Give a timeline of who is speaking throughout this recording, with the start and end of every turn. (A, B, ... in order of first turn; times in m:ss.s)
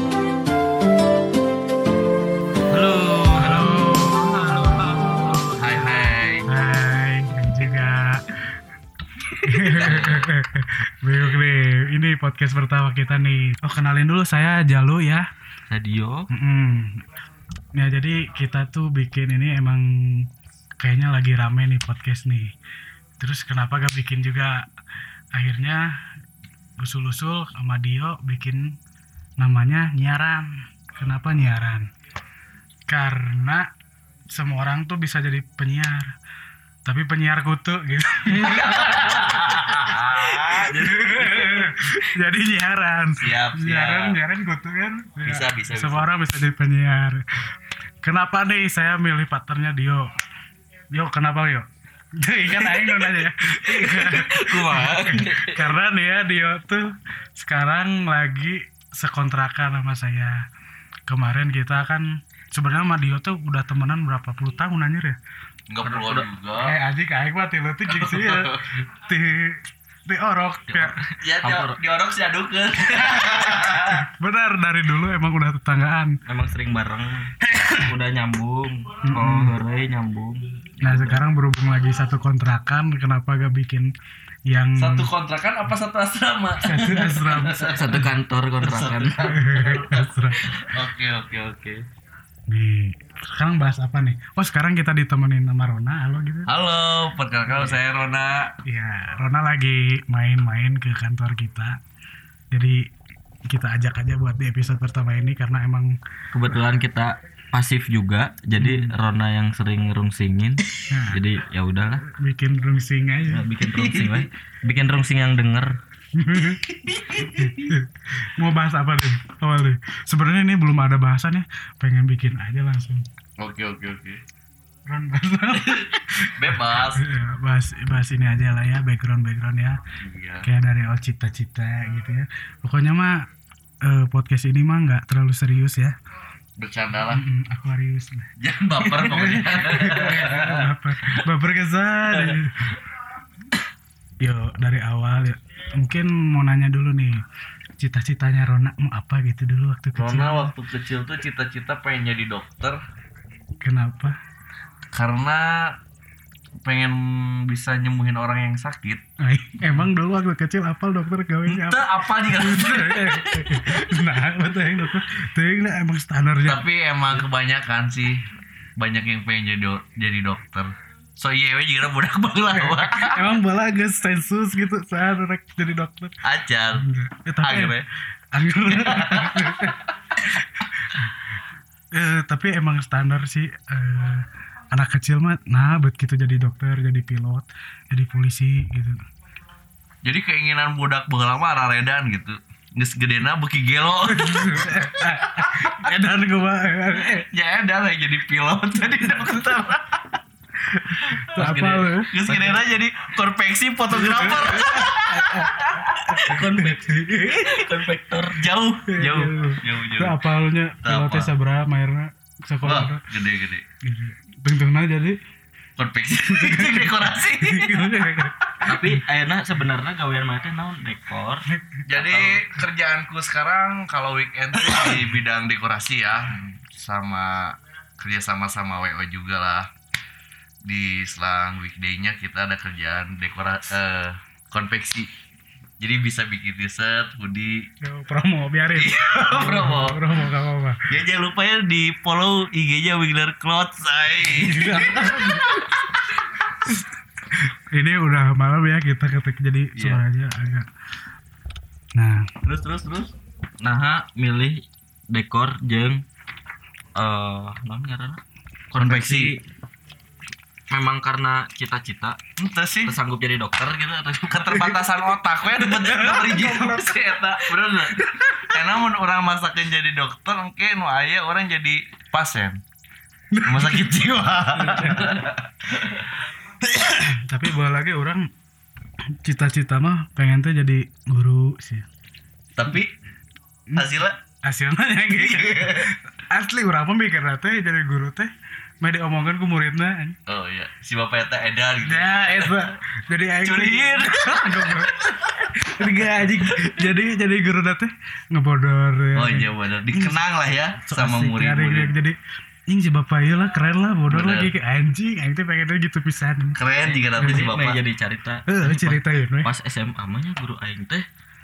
0:02.7-0:05.5 A
0:03.4-0:05.5 B
0:05.6-0:06.5 C
0:06.5-0:08.3 B
0:09.4-0:15.3 B
0:09.7-0:10.1 A
0:09.7-0:10.3 C
0:15.7-0:16.3 A
0:16.3-0:17.0 B
0:17.8-0:20.3 B
0:20.8-0:22.5 B
0:23.2-0:24.7 B
0:25.4-0:25.9 B
0:26.8-0:28.8 B
0:29.4-0:31.9 B
0:32.9-0:33.7 B
0:34.3-0:36.1 B
0:36.9-0:39.4 B
0:38.4-0:40.9 C
0:40.3-0:41.6 A
0:40.4-0:47.5 B
0:43.2-0:44.2 C
0:45.2-0:46.1 C
0:48.0-0:50.1 B
0:50.9-1:00.4 B
0:52.6-0:55.7 A
1:01.1-1:05.2 B
1:05.7-1:06.8 C
1:05.8-1:06.3 A
1:06.6-1:11.0 B
1:07.9-1:08.6 C
1:10.7-1:11.8 A
1:11.2-1:14.1 C
1:13.9-1:16.2 B
1:16.3-1:21.2 A
1:19.0-1:19.6 B
1:20.8-1:23.9 B
1:24.5-1:25.1 B
1:24.8-1:28.0 C
1:26.6-1:28.0 B
1:27.7-1:29.4 A
1:28.6-1:31.8 C
1:29.3-1:30.5 B
1:32.5-1:36.5 B
1:36.5-1:38.5 C
1:38.6-1:41.8 B
1:42.5-1:42.9 B
1:43.5-1:46.0 B
1:46.3-1:52.0 A
1:48.6-1:48.9 B
1:50.9-1:51.2 B
1:52.1-1:53.4 B
1:53.3-1:55.7 A
1:53.7-1:54.3 C
1:56.2-1:56.6 B
1:56.7-1:57.7 C
1:57.2-2:03.1 B
2:03.4-2:04.2 C
2:04.9-2:09.8 B
2:06.3-2:07.0 C
2:10.0-2:10.5 C
2:10.4-2:13.3 B
2:13.8-2:16.0 B
2:16.6-2:17.2 C
2:17.1-2:22.8 B
2:18.4-2:20.7 C
2:22.1-2:22.4 C
2:24.2-2:27.2 B
2:27.8-2:30.5 B
2:30.0-2:32.8 C
2:33.6-2:34.2 B
2:34.9-2:35.8 C
2:36.6-2:39.0 C
2:39.2-2:46.6 B
2:41.5-2:43.9 C
2:46.4-2:48.2 C
2:48.8-2:53.4 C
2:52.6-2:56.2 B
2:56.2-2:56.9 C
2:56.8-2:57.8 B
2:57.4-2:57.9 C
2:58.3-3:01.2 B
2:58.7-2:59.8 C
3:01.9-3:09.0 B
3:10.0-3:15.8 C
3:14.1-3:17.3 B
3:17.0-3:20.2 C
3:20.7-3:22.2 B
3:21.0-3:26.5 C
3:23.9-3:27.6 B
3:26.2-3:28.5 A
3:28.3-3:30.3 C
3:28.9-3:33.0 B
3:30.8-3:31.3 C
3:32.6-3:33.6 C
3:33.8-3:35.2 B
3:35.8-3:38.3 C
3:36.3-3:39.0 B
3:38.6-3:42.4 A
3:41.9-3:49.7 C
3:46.3-3:46.6 A
3:50.6-3:55.1 C
3:55.8-3:57.7 C
3:57.8-4:00.9 B
3:58.7-4:00.2 C
4:00.9-4:05.7 C
4:04.3-4:05.5 B
4:07.3-4:10.7 B
4:09.8-4:10.0 C
4:12.0-4:12.3 B
4:12.4-4:13.1 C
4:13.6-4:16.0 A
4:17.0-4:18.2 A
4:18.7-4:19.4 A
4:18.8-4:19.4 C
4:20.7-4:22.2 A
4:22.4-4:23.0 C
4:22.9-4:24.8 A
4:24.3-4:32.6 C
4:25.5-4:26.9 B
4:27.9-4:28.6 B
4:33.3-4:33.9 B
4:33.4-4:36.0 C
4:34.5-4:35.2 B
4:36.7-4:38.3 B
4:39.2-4:41.9 B
4:42.6-4:42.9 C
4:43.8-4:44.2 C
4:44.4-4:50.2 B
4:45.1-4:45.9 C
4:50.3-4:52.7 C
4:51.8-5:00.2 B
4:53.4-4:56.8 C
4:59.2-5:01.9 C
5:00.9-5:02.2 B
5:02.7-5:06.6 B
5:04.1-5:04.5 C
5:06.6-5:07.8 C
5:06.8-5:11.1 A
5:08.5-5:09.5 B